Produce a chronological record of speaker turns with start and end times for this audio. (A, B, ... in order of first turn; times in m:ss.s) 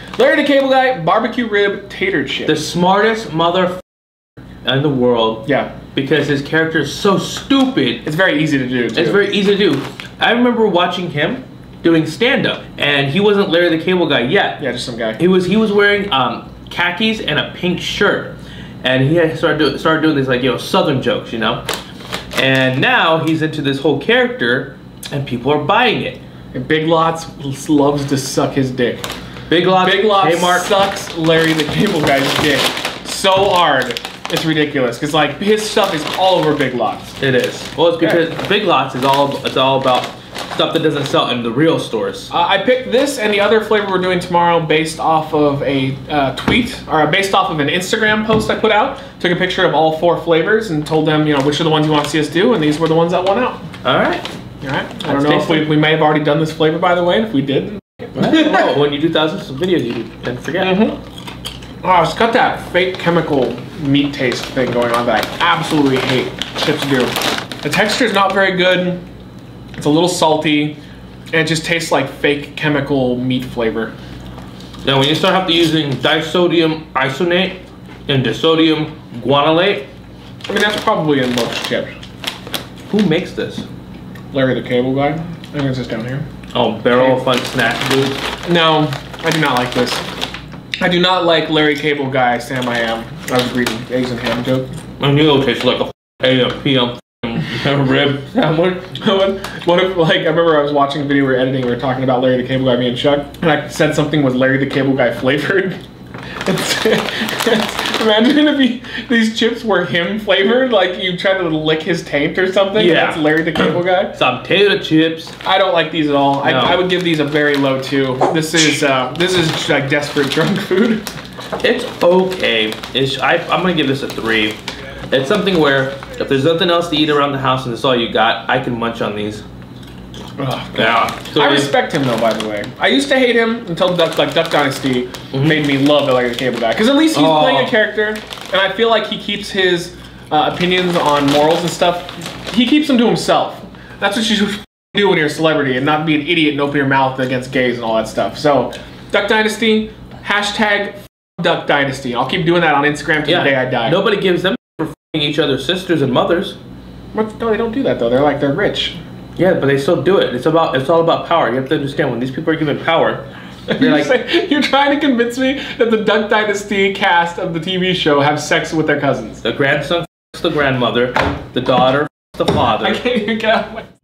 0:00.2-0:02.6 A
0:02.5-0:03.8 B
0:04.6-0:08.1 B
0:05.4-0:05.8 A
0:08.0-0:09.3 A
0:08.9-0:14.6 B
0:14.6-0:15.2 A
0:15.2-0:21.6 B
0:22.4-0:26.2 B
0:26.5-0:29.1 A
0:29.5-0:30.7 B
0:29.7-0:37.2 A
0:37.2-0:42.3 B
0:42.3-0:53.6 A
0:53.8-0:54.2 B
0:54.6-0:58.7 A
0:55.1-0:55.7 B
0:58.2-1:00.8 B
1:00.6-1:01.0 A
1:01.8-1:09.0 A
1:09.8-1:10.8 A
1:11.3-1:13.9 A
1:14.8-1:19.9 B
1:20.5-1:22.0 A
1:22.9-1:23.7 B
1:24.3-1:26.3 A
1:26.5-1:28.2 B
1:27.0-1:27.2 A
1:28.4-1:30.0 A
1:30.8-1:34.7 A
1:35.0-1:38.9 B
1:39.0-1:45.8 A
1:46.5-1:54.2 A
1:52.7-1:55.4 B
1:55.4-2:01.0 A
1:56.4-1:56.8 B
2:01.6-2:04.6 B
2:05.1-2:09.4 B
2:10.4-2:34.0 A
2:10.8-2:11.7 B
2:15.3-2:15.6 B
2:17.1-2:17.8 B
2:33.3-2:36.6 B
2:37.1-2:39.0 A
2:39.4-2:43.3 B
2:43.7-2:49.4 A
2:43.8-2:44.1 B
2:49.4-2:53.0 B
2:52.8-2:53.9 A